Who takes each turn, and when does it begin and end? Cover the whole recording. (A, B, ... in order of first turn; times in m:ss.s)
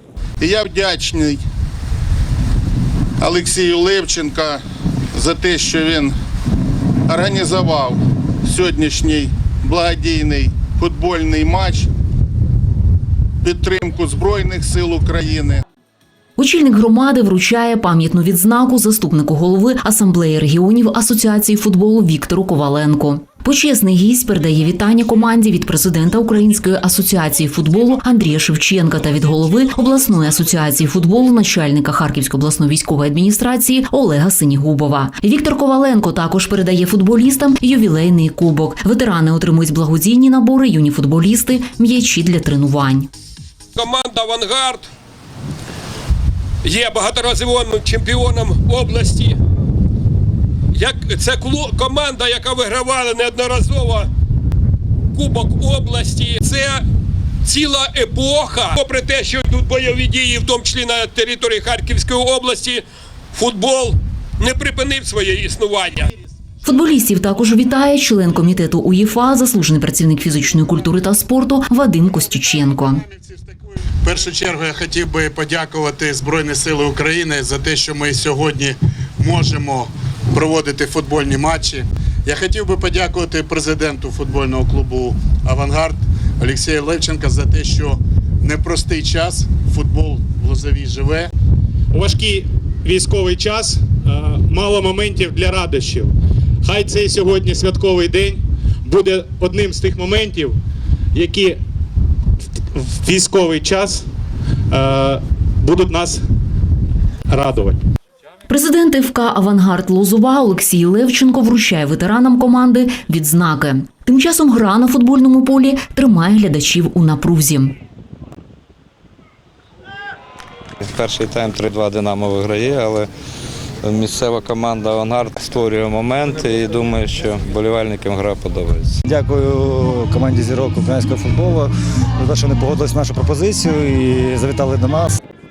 0:00.4-0:01.4 A
0:03.2-0:04.6 A
0:05.1-0:06.1 A
0:07.1-0:11.9 A
0:13.4-0:15.6 A
0:16.4-0:43.1 B
0:43.8-0:44.9 C
0:46.6-0:49.4 C
0:50.7-0:54.1 C
0:55.1-0:56.8 C
0:57.4-1:06.1 C
1:06.6-1:13.0 B
1:14.0-1:31.3 D
1:31.9-1:40.6 E
1:41.1-1:41.6 E
1:42.7-1:44.0 E
1:44.7-1:46.2 E
1:47.3-1:47.8 E
1:48.5-1:57.8 B
2:00.8-2:03.1 F
2:03.8-2:09.0 F
2:09.0-2:15.2 G